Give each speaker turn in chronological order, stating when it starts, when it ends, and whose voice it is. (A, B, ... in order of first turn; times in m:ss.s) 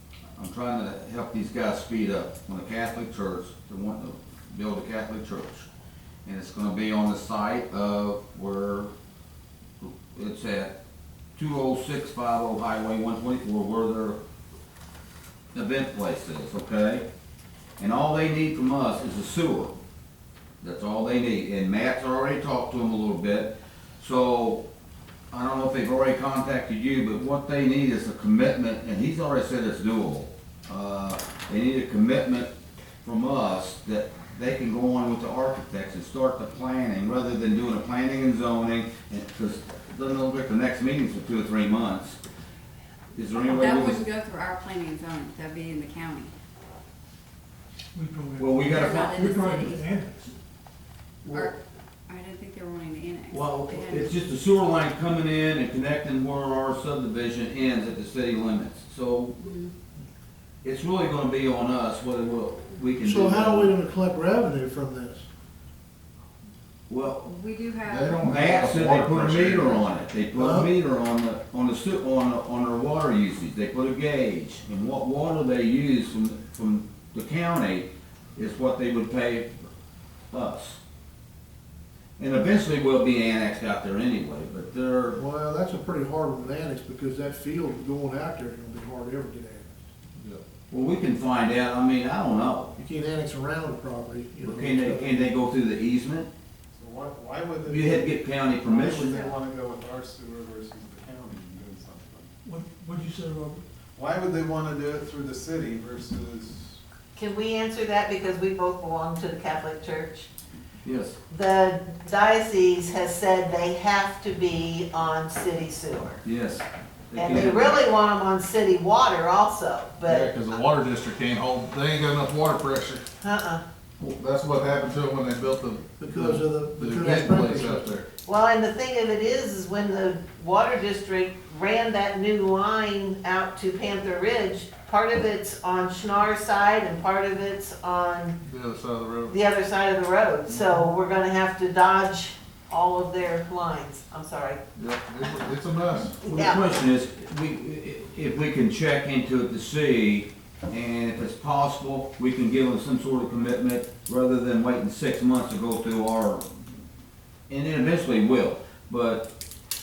0:00.4-0:05.7 A
0:06.2-0:08.9 A
0:09.8-0:10.7 A
0:11.4-0:14.2 A
0:15.5-0:17.0 A
0:17.8-0:19.7 A
0:20.6-0:24.6 A
0:25.3-0:32.5 A
0:33.0-0:42.2 A
0:43.1-0:44.0 A
0:43.4-0:46.3 B
0:47.9-0:50.3 C
0:48.4-0:49.2 A
0:48.7-0:49.9 B
0:51.3-0:54.2 B
0:53.3-0:59.4 A
0:59.4-0:59.7 B
1:00.6-1:03.7 A
1:03.0-1:05.2 D
1:06.9-1:07.3 A
1:07.2-1:08.8 B
1:07.8-1:09.8 E
1:08.2-1:19.6 A
1:10.3-1:10.7 D
1:20.3-1:20.8 A
1:22.2-1:25.2 A
1:25.1-1:29.8 D
1:30.7-1:32.7 A
1:32.8-1:35.3 D
1:34.4-1:36.3 A
1:36.7-1:42.3 F
1:37.6-1:39.2 A
1:42.4-1:43.6 C
1:44.0-1:46.8 F
1:47.1-1:50.3 G
1:50.8-1:51.2 A
1:51.3-1:56.2 G
1:56.2-1:57.8 A
1:57.1-2:00.3 G
2:00.0-2:03.0 E
2:03.2-2:03.6 G
2:04.0-2:08.0 E
2:06.0-2:07.9 D
2:08.2-2:18.4 G
2:18.4-2:19.3 E
2:19.3-2:24.6 G
2:24.8-2:26.2 E
2:26.2-2:36.5 A
2:26.3-2:26.8 G
2:37.5-2:39.3 A